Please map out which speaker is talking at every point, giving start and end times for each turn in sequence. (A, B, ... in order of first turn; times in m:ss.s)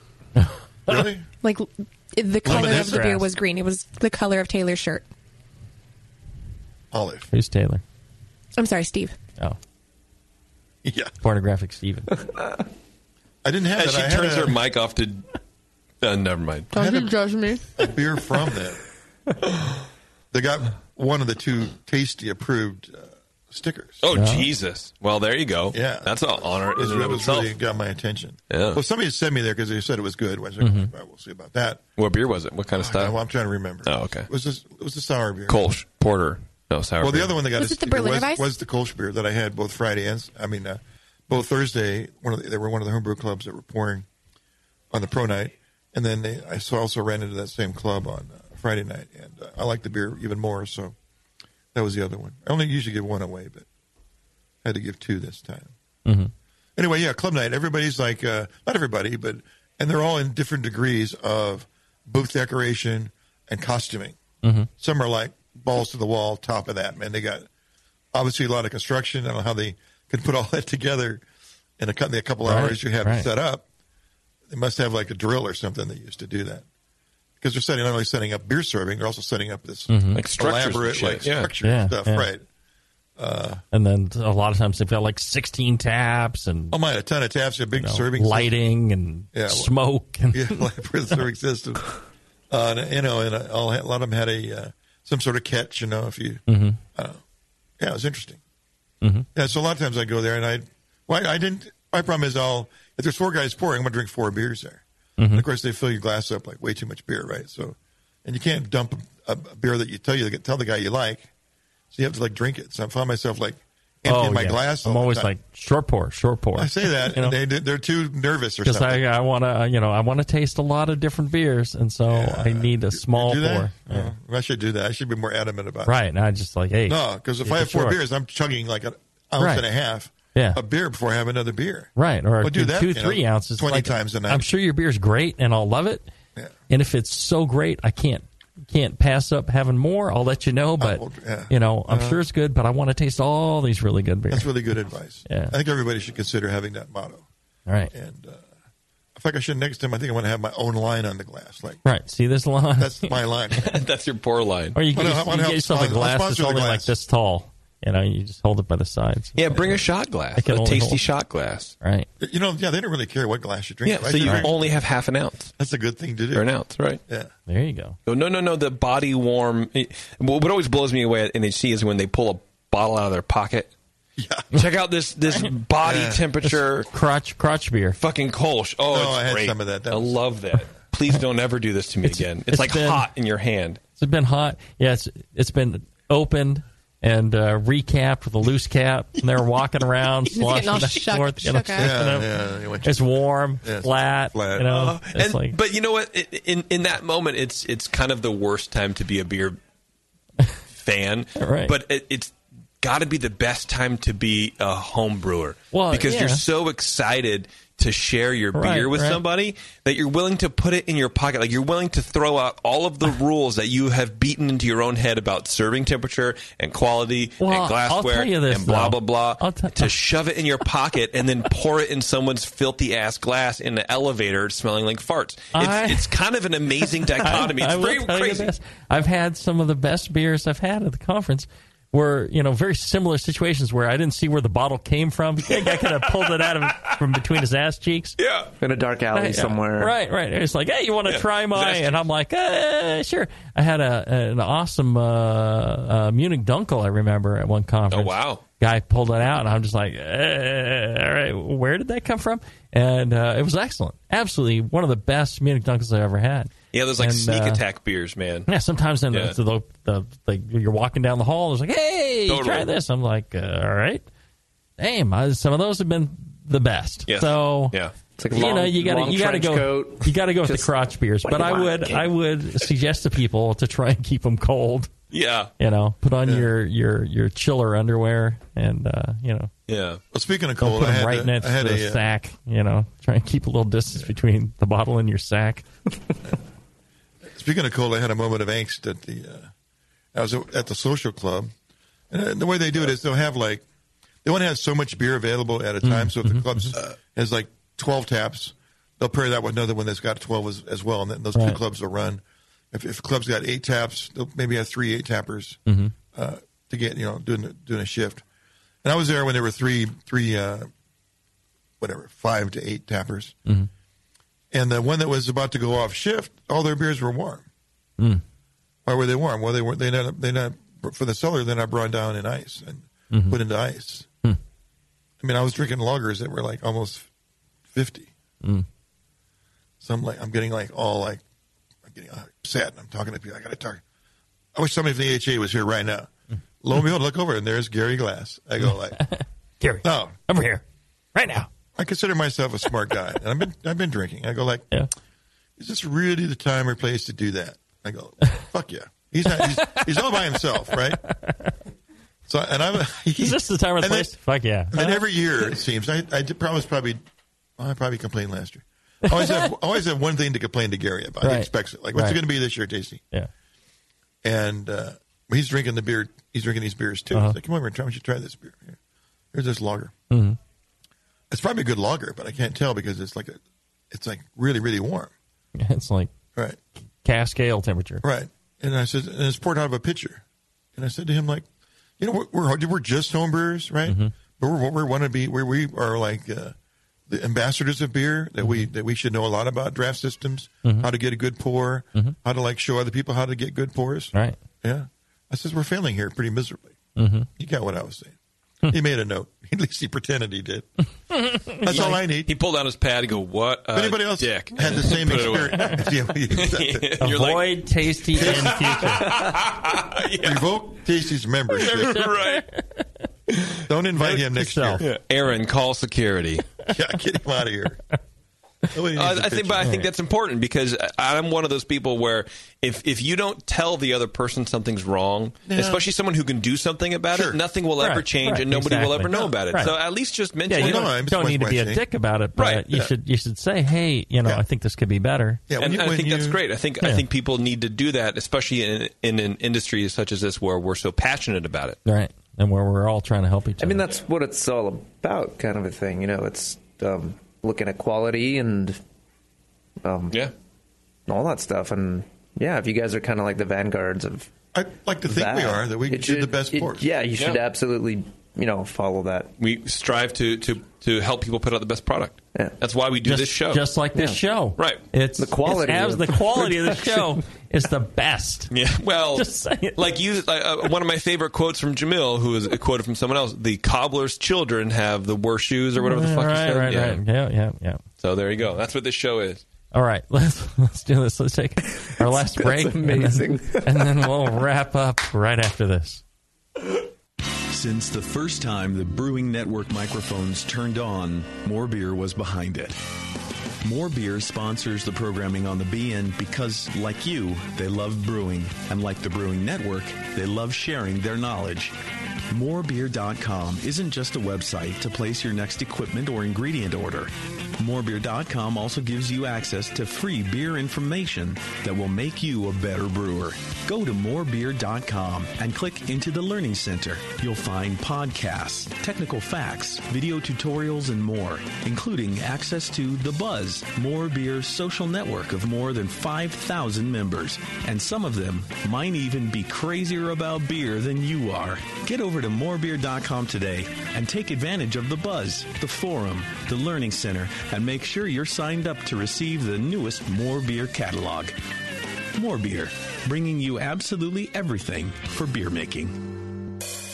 0:00.4-0:01.0 A
0:00.9-0:01.3 B
0:01.4-0:05.0 C
0:02.4-0:03.0 B
0:02.5-0:03.3 A
0:06.9-0:07.3 B
0:07.3-0:07.8 A
0:08.6-0:09.2 C
0:10.8-0:11.1 B
0:11.2-0:12.2 A
0:13.4-0:14.6 B
0:13.8-0:15.2 D
0:16.0-0:16.7 D
0:16.7-0:17.2 B
0:16.7-0:17.7 C
0:17.8-0:18.8 B
0:20.3-0:24.0 B
0:24.0-0:27.5 D
0:24.1-0:24.5 A
0:25.7-0:31.8 B
0:28.5-0:28.8 D
0:30.6-0:30.9 A
0:32.0-0:33.2 D
0:32.7-0:35.7 B
0:33.8-0:34.3 D
0:35.5-0:37.4 D
0:37.0-0:44.1 B
0:37.6-0:38.5 C
0:44.9-0:51.0 B
0:51.7-0:53.7 B
0:54.6-0:55.7 B
0:56.0-0:56.3 A
0:56.8-1:04.2 B
1:04.4-1:04.7 A
1:04.8-1:07.5 B
1:08.1-1:11.2 B
1:11.8-1:13.7 B
1:12.4-1:13.3 A
1:14.5-1:16.6 B
1:17.4-1:22.4 B
1:19.9-1:20.2 A
1:20.1-1:21.5 D
1:21.6-1:22.3 A
1:23.2-1:23.6 B
1:23.7-1:26.8 A
1:26.7-1:28.6 B
1:27.8-1:30.7 A
1:29.3-1:29.7 B
1:30.3-1:36.4 B
1:36.5-1:36.8 A
1:37.0-1:37.2 B
1:37.8-1:38.4 B
1:39.0-1:39.3 A
1:39.3-1:51.3 B
1:45.2-1:45.4 A
1:51.9-1:55.3 B
1:54.1-1:57.4 A
1:56.6-1:59.1 B
1:58.6-2:04.1 A
2:02.1-2:06.0 B
2:05.9-2:08.0 A
2:06.9-2:14.5 B
2:09.4-2:09.7 A
2:10.4-2:10.6 A
2:12.0-2:16.1 A
2:16.7-2:24.5 A
2:20.8-2:22.2 B
2:24.3-2:27.3 B
2:25.3-2:25.5 A
2:27.7-2:27.9 A
2:27.9-2:28.5 B
2:29.2-2:31.8 B
2:31.8-2:33.2 A
2:32.8-2:33.8 B
2:33.6-2:34.8 D
2:34.8-2:41.0 A
2:34.9-2:36.9 B
2:39.4-2:41.8 D
2:41.8-2:42.1 A
2:42.2-2:44.7 B
2:43.8-2:45.5 D
2:44.2-2:44.5 A
2:45.6-2:46.5 B
2:46.3-2:47.0 D
2:47.5-2:48.0 A
2:48.1-2:53.7 D
2:54.2-2:54.6 B
2:54.5-2:56.9 D
2:55.8-2:56.3 B
2:56.8-2:58.0 A
2:58.0-3:03.8 D
2:58.9-3:00.3 B
3:02.0-3:03.1 A
3:04.0-3:12.3 A
3:10.3-3:11.9 C
3:11.8-3:14.9 B
3:12.8-3:15.5 A
3:14.7-3:19.6 D
3:20.8-3:48.5 D
3:21.4-3:21.8 A
3:25.7-3:26.4 A
3:28.5-3:29.2 A
3:37.4-3:40.0 A
3:45.5-3:46.1 A
3:47.2-3:58.2 A
3:58.2-3:58.5 D
3:58.6-4:00.0 E
3:59.1-4:17.6 A
4:01.1-4:02.0 D
4:07.9-4:08.4 D
4:16.7-4:18.5 D
4:18.5-4:24.0 A
4:22.3-4:22.7 D
4:24.8-4:27.8 A
4:27.1-4:27.9 D
4:28.2-4:30.7 E
4:28.3-4:34.9 A
4:31.2-4:32.1 E
4:35.1-4:35.5 D
4:35.6-4:39.5 A
4:36.2-4:36.5 B
4:39.7-4:40.0 D
4:40.1-4:42.0 B
4:40.6-4:45.7 A
4:47.2-4:49.5 B
4:50.1-4:51.5 B
4:52.1-4:53.6 B
4:54.2-5:05.6 B
4:55.8-4:56.8 A
5:05.7-5:05.9 A
5:06.1-5:08.2 B
5:08.8-5:10.7 B
5:11.8-5:13.4 B
5:14.5-5:17.5 B
5:18.9-5:24.1 B
5:23.1-5:23.4 A
5:25.2-5:27.1 B
5:27.7-5:28.1 B
5:29.8-5:31.2 B
5:31.8-5:33.8 B
5:34.5-5:36.1 B
5:36.6-5:39.1 B
5:38.6-5:40.6 A
5:39.8-5:40.2 B
5:41.2-5:41.5 A
5:41.8-5:44.7 B
5:45.6-5:51.0 B
5:49.3-5:50.2 A
5:51.0-5:51.6 A
5:52.3-5:54.1 B
5:53.2-5:55.1 A
5:54.7-5:57.0 B
5:57.6-6:03.0 B
5:59.1-5:59.5 A
6:01.2-6:02.2 A
6:04.2-6:08.8 B
6:07.1-6:07.4 A
6:09.3-6:09.9 B
6:10.1-6:10.4 A
6:11.3-6:13.4 B
6:13.9-6:15.1 B
6:15.6-6:16.1 A
6:17.0-6:18.0 A
6:18.0-6:20.2 B
6:20.8-6:21.5 B
6:22.0-6:26.6 B
6:23.9-6:24.1 A
6:27.1-6:36.8 B
6:28.4-6:28.7 A
6:30.6-6:30.9 A
6:37.0-6:37.3 A
6:37.4-6:40.7 B
6:41.1-6:42.0 A
6:41.6-6:42.3 B
6:41.7-6:50.5 D
6:43.7-6:47.0 B
6:47.0-6:49.2 A
6:48.2-6:48.7 B
6:50.2-6:52.1 B
6:51.6-6:52.9 A
6:51.6-6:52.4 D
6:53.7-6:54.8 B
6:54.0-6:54.8 A
6:54.8-6:56.5 D
6:56.7-6:57.8 B
6:58.7-6:59.7 B
6:58.9-7:10.9 D
6:59.6-6:59.9 A
7:05.5-7:05.8 B
7:07.1-7:07.4 B
7:07.8-7:09.7 A
7:10.5-7:15.4 A
7:10.5-7:11.8 B
7:12.4-7:12.8 D
7:15.5-7:16.4 B
7:15.6-7:21.8 D
7:21.9-7:23.9 A
7:23.6-7:28.8 E
7:29.8-7:30.2 E
7:31.1-7:34.3 E
7:34.5-7:36.9 B
7:35.1-7:39.3 E
7:39.4-7:43.6 D
7:43.0-7:48.5 A
7:44.6-7:44.8 D
7:45.2-7:47.1 E
7:48.5-7:57.0 D
7:49.2-7:49.8 A
7:55.8-7:57.8 A
7:58.0-7:59.4 D
7:59.7-8:06.0 A
8:02.2-8:04.1 E
8:07.5-8:12.8 F
8:13.6-8:21.8 F
8:22.3-9:01.4 F
9:02.2-9:06.1 F